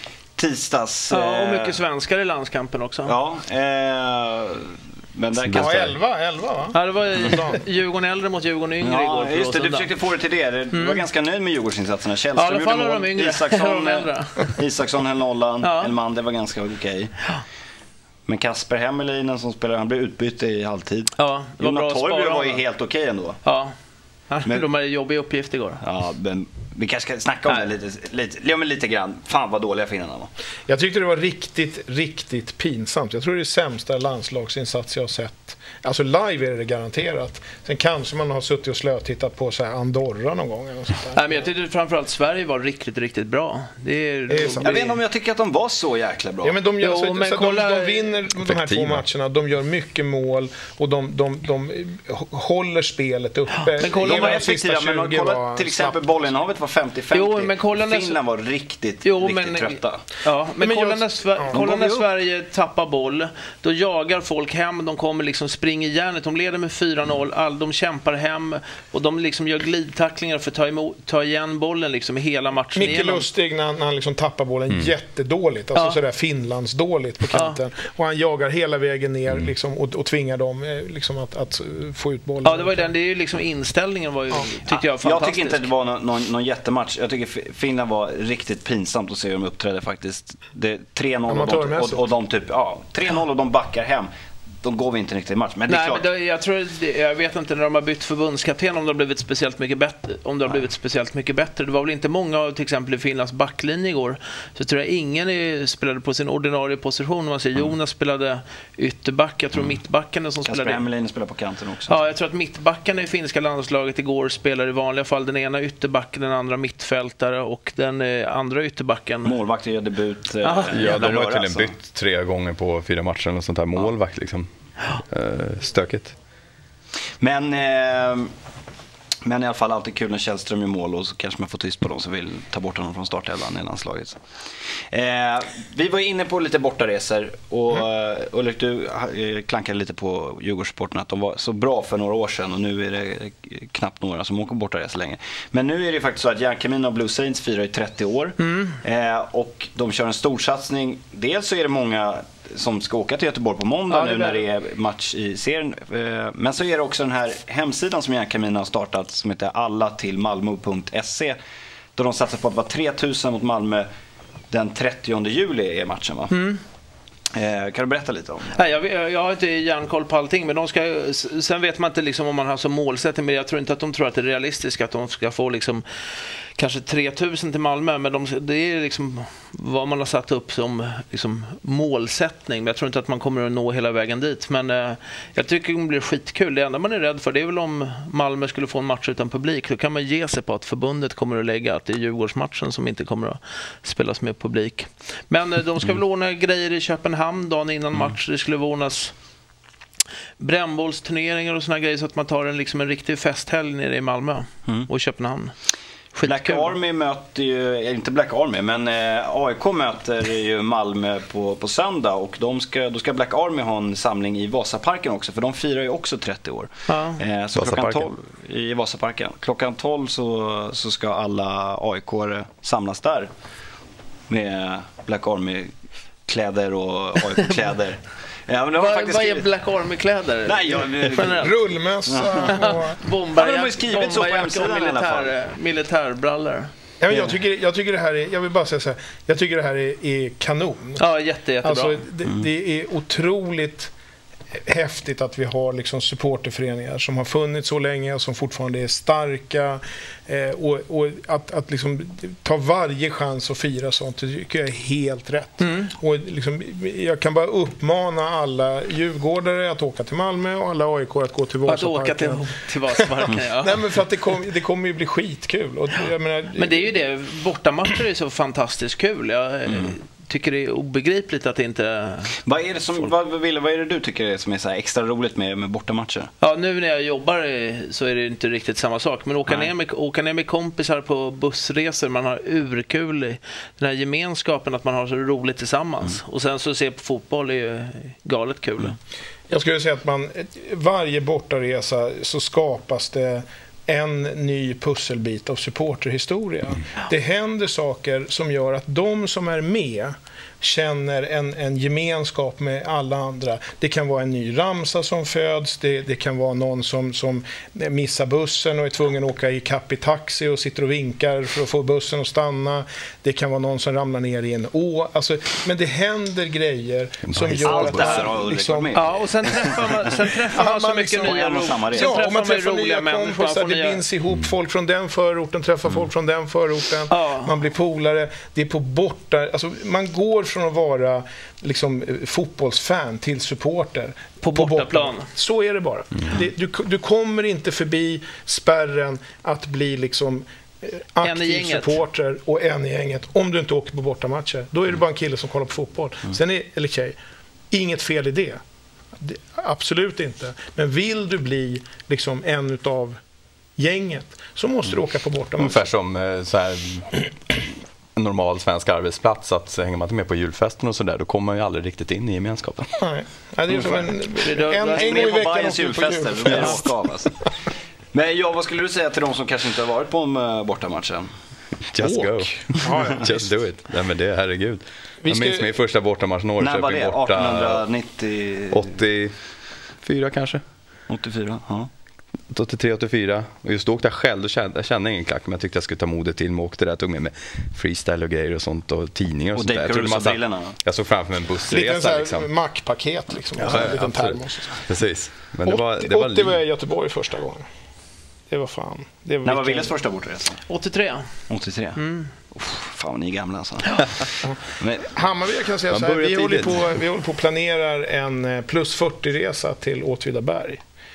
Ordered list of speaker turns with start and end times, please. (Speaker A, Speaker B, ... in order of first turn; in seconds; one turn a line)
Speaker A: 0.4-1.8
Speaker B: 1.1-3.1
Speaker A: 3.1-5.9
Speaker C: 5.4-6.0
Speaker D: 5.5-7.6
Speaker B: 6.7-9.9
Speaker A: 8.8-17.1
Speaker B: 10.7-11.0
Speaker B: 12.3-14.6
Speaker B: 15.6-15.9
Speaker A: 18.3-23.4
Speaker B: 21.2-22.6
Speaker B: 23.4-23.7
Speaker B: 24.3-25.8
Speaker A: 25.8-30.3
Speaker D: 30.7-41.4
Speaker B: 41.1-45.0
Speaker D: 44.3-44.9
Speaker A: 44.6-46.6
Speaker D: 46.4-56.3
Speaker B: 46.8-48.2
Speaker C: 48.5-49.0
Speaker B: 53.5-54.5
Speaker A: 53.8-60.0
Speaker B: 57.1-58.2
Speaker B: 59.0-73.3
Speaker D: 60.6-61.6
Speaker A: 61.5-62.1
Speaker D: 72.8-82.9
Speaker B: 77.3-77.6
Speaker B: 82.4-85.7
Speaker A: 84.7-94.1
Speaker D: 91.3-92.0
Speaker A: 94.6-96.0
Speaker B: 95.7-110.8
Speaker A: 110.5-112.0
Speaker B: 111.9-119.4
Speaker A: 119.2-121.7
Speaker B: 120.4-121.1
Speaker C: 120.7-126.2
Speaker A: 127.2-128.3
Speaker A: 129.2-134.2
Speaker A: 134.9-161.4
Speaker B: 153.9-154.4
Speaker A: 162.0-163.9
Speaker A: 164.5-166.3
Speaker B: 166.3-166.6
Speaker A: 167.3-168.5
Speaker B: 168.5-175.8
Speaker B: 176.6-199.1
Speaker B: 200.4-205.5
Speaker B: 206.1-206.8
Speaker A: 206.3-223.3
Speaker B: 216.9-217.2
Speaker C: 217.6-218.1
Speaker A: 224.3-225.7
Speaker A: 226.3-229.5
Speaker B: 228.7-231.6
Speaker A: 230.5-231.5
Speaker D: 231.3-233.0
Speaker A: 232.1-232.6
Speaker B: 232.4-236.7
Speaker A: 233.3-235.3
Speaker D: 237.0-241.1
Speaker B: 241.0-242.0
Speaker D: 241.6-243.9
Speaker D: 244.7-262.5
Speaker B: 255.6-255.9
Speaker B: 261.6-263.8
Speaker D: 263.6-267.0
Speaker B: 266.6-272.4
Speaker A: 269.7-269.9
Speaker A: 272.4-276.3
Speaker B: 276.4-289.0
Speaker D: 289.5-319.9
Speaker C: 317.3-318.4
Speaker A: 317.6-319.8
Speaker B: 318.9-324.0
Speaker D: 320.5-347.2
Speaker A: 321.2-322.3
Speaker B: 327.1-327.5
Speaker B: 334.4-335.3
Speaker B: 341.2-342.0
Speaker D: 347.7-348.6
Speaker D: 349.2-353.2
Speaker D: 353.8-355.9
Speaker C: 355.6-357.2
Speaker C: 358.2-362.9
Speaker D: 363.0-366.9
Speaker A: 363.7-364.1
Speaker B: 364.4-365.4
Speaker A: 364.9-367.5
Speaker A: 368.1-371.3
Speaker C: 371.9-377.9
Speaker D: 372.0-373.6
Speaker D: 375.2-375.7
Speaker A: 376.6-378.9
Speaker C: 378.7-379.4
Speaker C: 380.0-380.6
Speaker A: 381.1-381.9
Speaker C: 382.5-392.5
Speaker A: 389.6-390.8
Speaker D: 391.7-394.8
Speaker C: 393.6-396.6
Speaker D: 395.7-397.6
Speaker D: 398.5-399.9
Speaker A: 399.4-400.6
Speaker B: 400.6-401.3
Speaker A: 401.5-405.1
Speaker B: 401.9-402.3
Speaker D: 405.1-410.8
Speaker C: 405.9-406.9